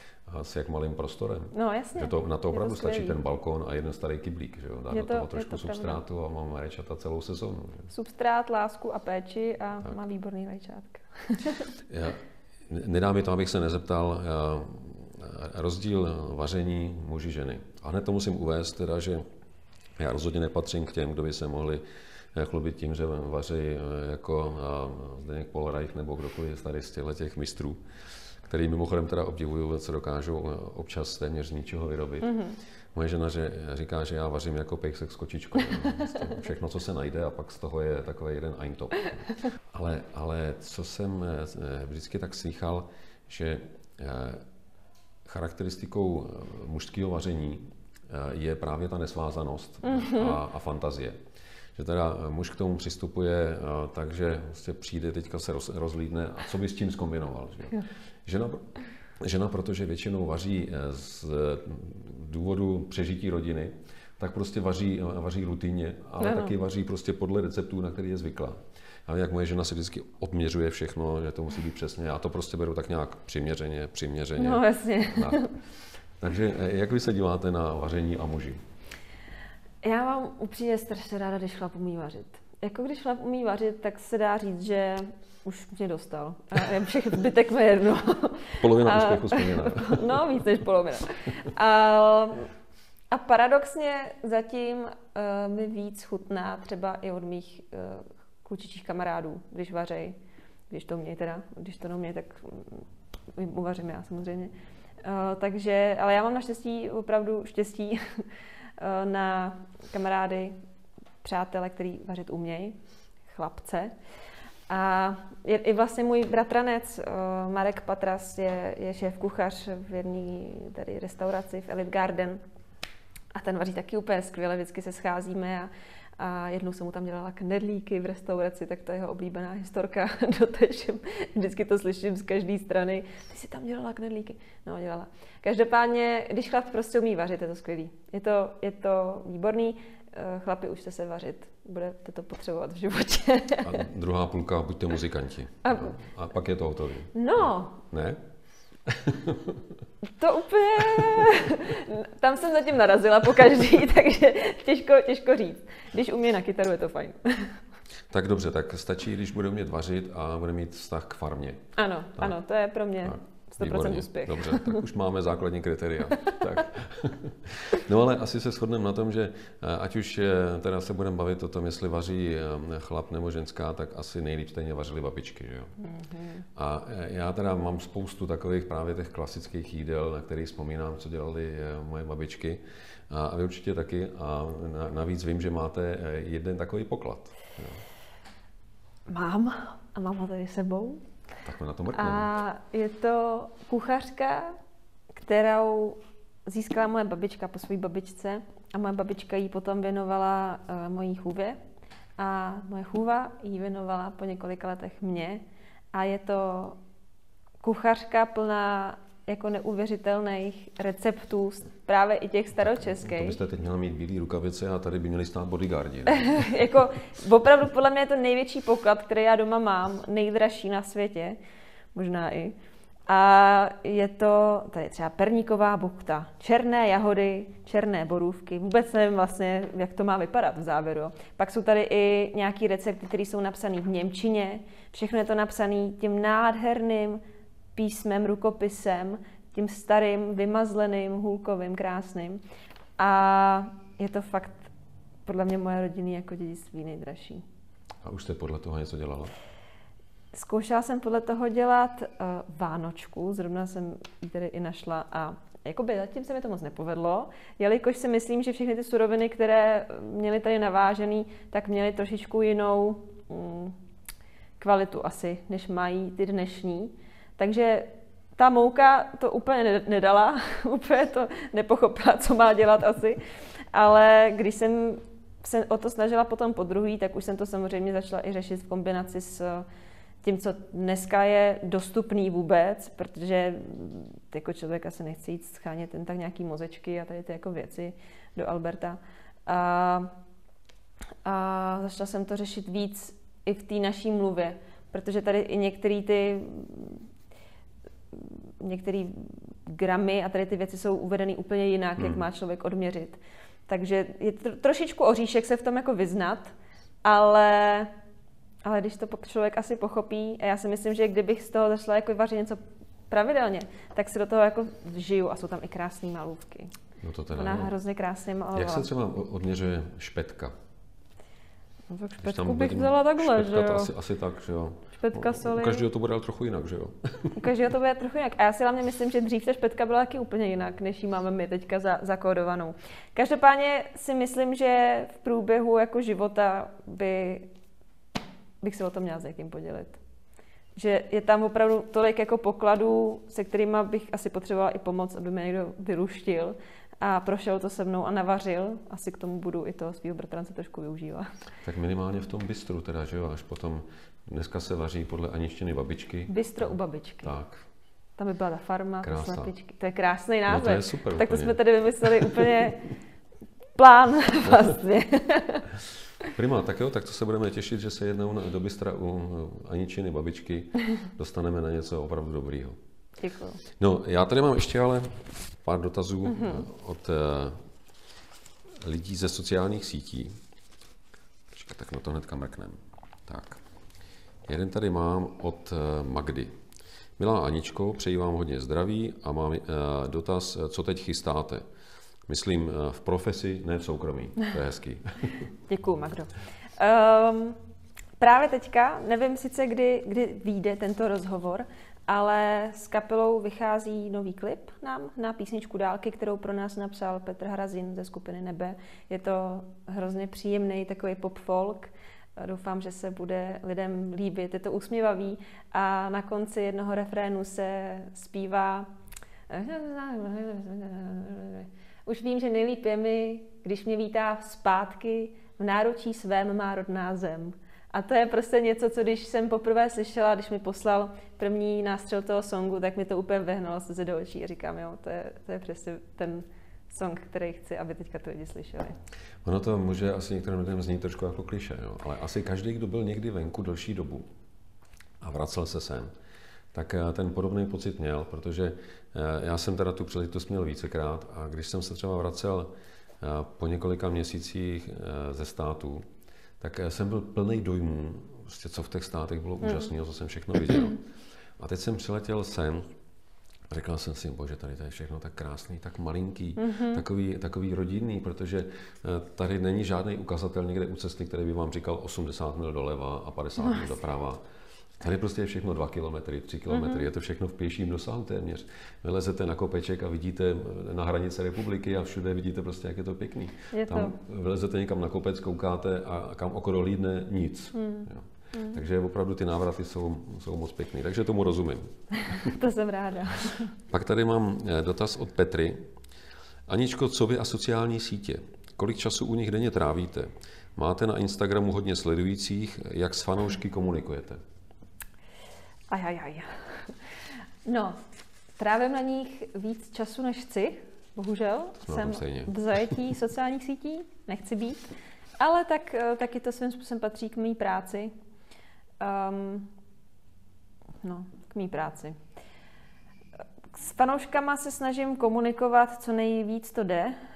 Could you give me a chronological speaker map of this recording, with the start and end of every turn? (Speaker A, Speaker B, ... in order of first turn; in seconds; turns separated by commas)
Speaker A: 0.3-7.9, Speaker B: 1.5-3.2, Speaker B: 4.9-6.0, Speaker B: 7.9-11.8, Speaker A: 11.9-19.2, Speaker A: 20.0-21.8, Speaker A: 22.4-27.8, Speaker A: 28.4-44.4, Speaker B: 32.2-32.6, Speaker A: 45.2-51.2, Speaker B: 49.9-50.4, Speaker A: 51.8-75.5, Speaker B: 66.2-66.5, Speaker B: 74.4-75.6, Speaker A: 76.2-78.6, Speaker B: 79.8-92.5, Speaker A: 88.6-90.4, Speaker B: 93.1-100.2, Speaker B: 100.7-108.2, Speaker B: 108.8-110.6, Speaker B: 111.2-113.9, Speaker B: 114.7-122.4, Speaker B: 123.3-143.9, Speaker A: 143.6-148.2, Speaker B: 145.6-146.0, Speaker B: 147.1-147.8, Speaker A: 148.9-149.8, Speaker B: 150.1-157.6, Speaker A: 151.0-151.3, Speaker A: 158.1-162.4, Speaker B: 161.8-164.8, Speaker A: 163.0-175.7, Speaker B: 166.1-166.4, Speaker B: 175.8-176.4, Speaker A: 176.6-187.8, Speaker B: 189.1-191.0, Speaker A: 191.4-192.3, Speaker B: 191.9-194.6, Speaker B: 195.2-201.6, Speaker B: 202.2-206.8, Speaker B: 207.6-213.4, Speaker A: 212.8-216.5, Speaker B: 216.1-221.4, Speaker B: 221.9-222.6, Speaker B: 223.1-237.2, Speaker B: 237.8-242.4, Speaker B: 243.0-244.7, Speaker B: 245.3-247.4, Speaker A: 248.0-249.3, Speaker B: 250.3-263.8, Speaker B: 264.6-279.7, Speaker B: 280.2-290.1, Speaker B: 291.2-297.1, Speaker B: 298.1-306.5, Speaker A: 302.0-302.2, Speaker B: 307.1-307.9, Speaker B: 308.6-316.7, Speaker A: 317.0-317.8, Speaker B: 317.4-318.9, Speaker A: 318.5-320.5, Speaker B: 321.9-323.9, Speaker A: 322.2-327.4, Speaker B: 324.9-325.9, Speaker B: 327.3-337.5, Speaker B: 338.6-340.0, Speaker B: 340.8-351.3, Speaker A: 351.6-357.6, Speaker B: 356.3-357.4, Speaker B: 358.2-362.9, Speaker A: 359.0-359.5, Speaker A: 360.5-362.7, Speaker B: 363.8-365.7, Speaker A: 366.2-372.8, Speaker B: 373.2-373.6, Speaker A: 373.8-377.6, Speaker B: 376.3-376.7, Speaker A: 378.8-380.4, Speaker A: 381.5-383.6, Speaker A: 384.5-386.6, Speaker A: 387.2-391.6, Speaker A: 392.3-395.5, Speaker B: 395.6-397.6, Speaker B: 398.2-418.9, Speaker B: 419.5-439.0, Speaker A: 439.4-444.3, Speaker A: 445.2-446.1, Speaker A: 446.7-456.1, Speaker A: 456.6-461.0, Speaker A: 461.6-462.9, Speaker A: 463.7-474.4, Speaker B: 466.6-467.0, Speaker A: 475.0-492.6, Speaker B: 476.7-477.1, Speaker B: 483.7-484.2, Speaker B: 487.7-488.8, Speaker B: 492.1-493.7, Speaker A: 493.9-495.9, Speaker A: 496.7-504.4, Speaker B: 505.9-506.9, Speaker B: 507.6-508.0, Speaker B: 508.6-518.1, Speaker A: 511.9-512.9, Speaker B: 519.0-519.7, Speaker B: 521.0-522.2, Speaker B: 523.7-527.2